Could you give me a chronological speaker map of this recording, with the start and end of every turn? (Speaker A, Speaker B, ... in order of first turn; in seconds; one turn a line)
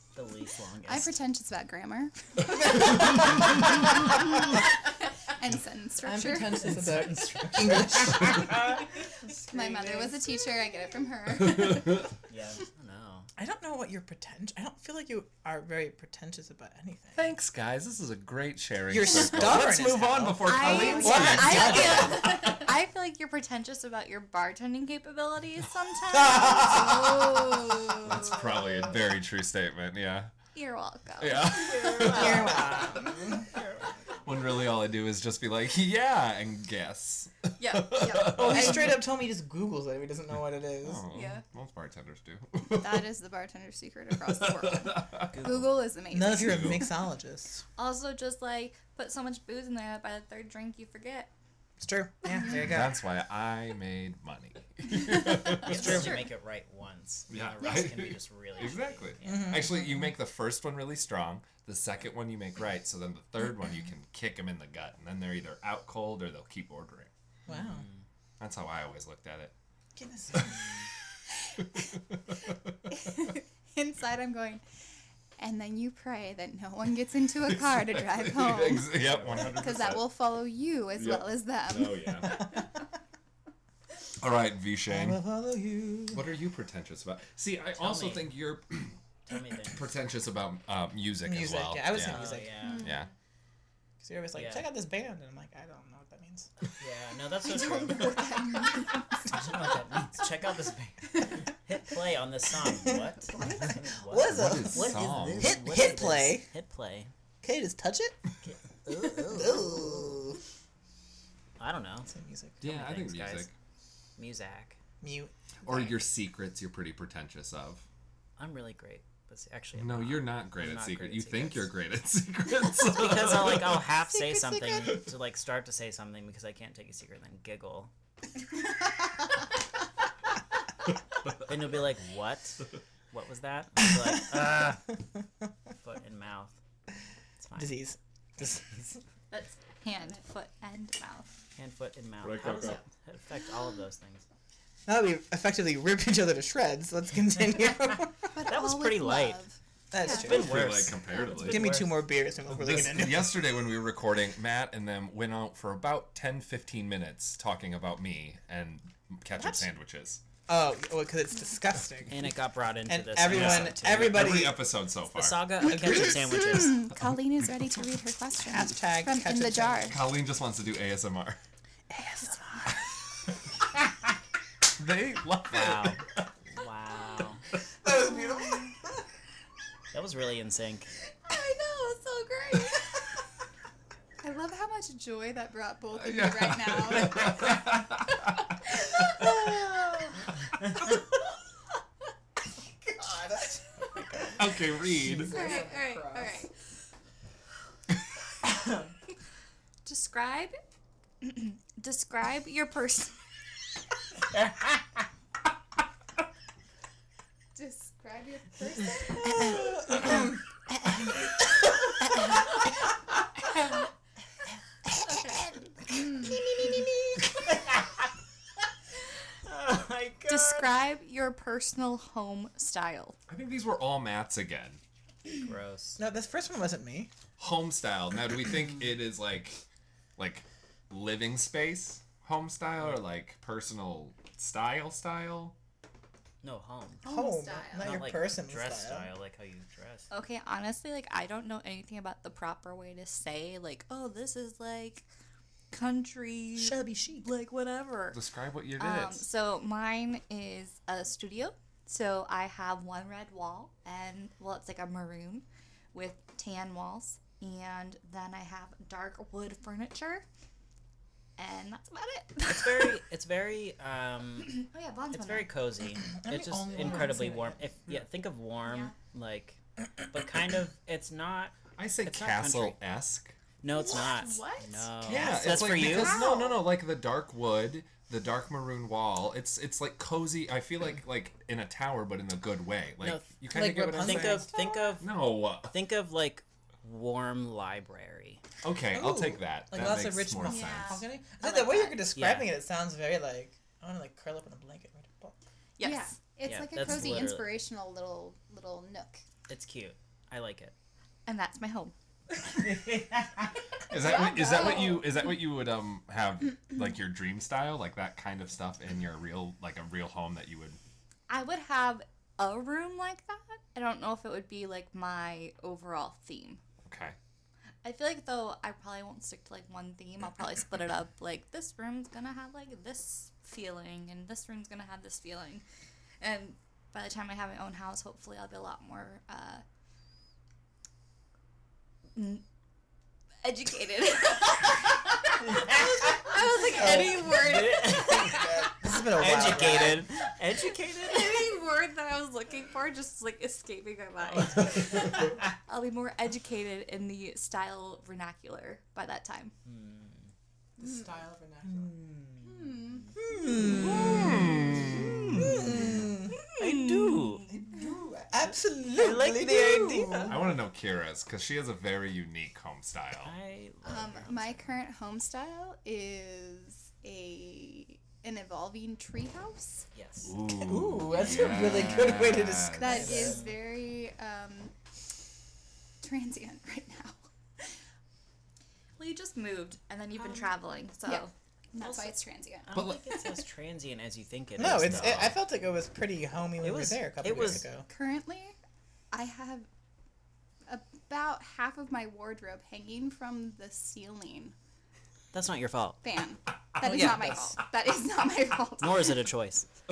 Speaker A: 0.1-1.2
Speaker B: 0.9-4.6
Speaker B: 5.3-6.7
Speaker C: 6.0-8.6
Speaker A: 7.0-8.8
Speaker B: 9.4-12.1
Speaker A: 9.5-9.9
Speaker A: 12.3-13.3
Speaker C: 13.4-17.3
Speaker D: 17.1-22.6
Speaker C: 18.9-22.4
Speaker E: 20.4-28.2
Speaker B: 20.6-22.6
Speaker D: 27.9-30.3
Speaker E: 30.5-31.8
Speaker D: 31.2-32.8
Speaker A: 31.5-34.4
Speaker C: 32.0-33.4
Speaker D: 34.2-39.0
Speaker E: 37.6-38.4
Speaker B: 38.3-38.8
Speaker C: 38.3-41.0
Speaker D: 40.8-43.1
Speaker E: 41.1-41.4
Speaker B: 42.7-46.9
Speaker D: 44.2-45.5
Speaker A: 45.3-45.7
Speaker C: 46.1-47.6
Speaker D: 46.3-46.9
Speaker E: 47.8-51.3
Speaker C: 51.8-53.0
Speaker D: 52.5-56.2
Speaker A: 55.6-59.6
Speaker B: 55.7-56.1
Speaker D: 57.3-67.1
Speaker C: 59.2-59.8
Speaker C: 67.5-67.9
Speaker A: 67.5-68.0
Speaker D: 68.4-69.5
Speaker C: 70.0-70.7
Speaker B: 72.9-74.6
Speaker B: 75.4-82.6
Speaker D: 77.5-80.2
Speaker A: 79.0-79.5
Speaker D: 81.0-82.5
Speaker D: 84.2-85.2
Speaker C: 84.9-86.3
Speaker D: 86.1-89.0
Speaker A: 87.8-88.3
Speaker A: 89.3-89.9
Speaker D: 89.7-93.1
Speaker C: 91.2-92.6
Speaker A: 92.0-92.9
Speaker C: 94.0-96.5
Speaker A: 94.3-94.7
Speaker A: 96.8-98.6
Speaker B: 97.5-99.0
Speaker A: 99.2-107.1
Speaker C: 102.9-106.5
Speaker D: 104.3-105.6
Speaker C: 107.4-108.2
Speaker A: 108.4-110.2
Speaker C: 109.1-110.4
Speaker A: 111.6-112.1
Speaker C: 112.1-112.6
Speaker D: 112.6-113.5
Speaker A: 112.6-113.5
Speaker A: 114.2-114.8
Speaker C: 115.0-116.0
Speaker D: 115.7-117.8
Speaker A: 118.4-121.7
Speaker D: 119.8-123.8
Speaker A: 122.9-127.9
Speaker A: 131.4-134.9
Speaker A: 135.8-136.6
Speaker A: 137.4-137.8
Speaker C: 137.6-139.0
Speaker E: 139.3-141.3
Speaker A: 141.6-144.2
Speaker D: 142.2-142.8
Speaker C: 144.9-148.3
Speaker B: 148.3-149.6
Speaker A: 148.4-149.4
Speaker C: 149.9-150.7
Speaker A: 150.1-152.1
Speaker D: 150.1-151.7
Speaker C: 151.4-153.4
Speaker D: 152.5-160.2
Speaker C: 160.5-162.3
Speaker A: 162.1-164.4
Speaker C: 162.9-164.7
Speaker D: 163.2-165.7
Speaker A: 165.1-166.9
Speaker C: 165.7-166.2
Speaker B: 165.8-170.0
Speaker C: 168.4-170.0
Speaker D: 169.9-171.4
Speaker C: 171.9-172.9
Speaker D: 174.8-176.3
Speaker A: 175.5-177.4
Speaker C: 177.8-179.0
Speaker A: 179.9-180.9
Speaker E: 181.3-182.7
Speaker B: 184.2-187.8
Speaker D: 185.9-188.4
Speaker B: 188.9-189.2
Speaker C: 192.8-196.4
Speaker D: 194.3-195.4
Speaker E: 195.3-196.5
Speaker B: 195.3-195.7
Speaker E: 199.8-200.6
Speaker E: 201.2-203.2
Speaker B: 207.6-209.5
Speaker C: 209.3-210.3
Speaker E: 214.9-215.7
Speaker C: 215.9-217.4
Speaker A: 217.5-217.9
Speaker A: 219.4-220.7
Speaker E: 220.3-223.2
Speaker D: 223.3-224.8
Speaker A: 225.3-226.0
Speaker C: 226.0-227.1
Speaker D: 227.4-229.6
Speaker D: 230.2-235.5
Speaker A: 236.4-237.0
Speaker B: 237.0-238.0
Speaker C: 237.0-239.1
Speaker A: 237.8-240.1
Speaker E: 240.1-245.1
Speaker E: 245.7-248.2
Speaker C: 246.6-247.3
Speaker D: 248.1-249.2
Speaker E: 248.8-260.2
Speaker E: 261.4-263.0
Speaker A: 262.4-272.8
Speaker E: 264.5-265.5
Speaker C: 266.2-267.8
Speaker D: 271.8-273.4
Speaker A: 273.6-276.3
Speaker B: 273.7-276.7
Speaker D: 275.0-284.5
Speaker A: 283.0-288.4
Speaker C: 283.5-285.0
Speaker D: 285.0-285.7
Speaker D: 288.6-291.0
Speaker C: 288.9-295.4
Speaker B: 290.4-291.0
Speaker E: 290.6-290.9
Speaker B: 291.6-292.0
Speaker A: 292.1-292.6
Speaker E: 295.8-296.1
Speaker B: 295.8-299.2
Speaker A: 296.4-297.6
Speaker A: 299.5-300.7
Speaker E: 301.3-301.9
Speaker A: 302.4-303.6
Speaker D: 303.9-310.8
Speaker B: 304.1-305.0
Speaker E: 311.3-316.6
Speaker D: 316.9-317.2
Speaker E: 317.8-325.6
Speaker E: 326.2-329.6
Speaker E: 332.1-332.4
Speaker E: 333.4-338.7
Speaker A: 336.8-341.5
Speaker C: 338.3-340.1
Speaker E: 341.0-349.5
Speaker A: 349.6-350.3
Speaker C: 350.8-351.9
Speaker A: 351.7-357.5
Speaker B: 352.4-353.1
Speaker C: 353.2-356.4
Speaker D: 353.9-355.4
Speaker E: 356.5-357.5
Speaker C: 357.5-360.4
Speaker A: 358.9-360.4
Speaker D: 360.3-363.3
Speaker A: 363.2-364.8
Speaker B: 363.9-369.9
Speaker A: 369.9-370.4
Speaker D: 370.2-373.3
Speaker C: 370.6-373.4
Speaker B: 372.8-374.7
Speaker A: 372.9-373.6
Speaker B: 376.0-377.8
Speaker E: 379.0-381.3
Speaker B: 381.1-382.7
Speaker A: 381.8-385.4
Speaker D: 382.7-383.0
Speaker C: 384.6-387.9
Speaker D: 384.6-385.4
Speaker A: 386.6-387.7
Speaker B: 387.9-388.6
Speaker B: 389.1-389.7
Speaker B: 390.7-394.5
Speaker A: 395.3-396.0
Speaker B: 396.0-399.2
Speaker C: 396.8-397.6
Speaker A: 398.8-399.7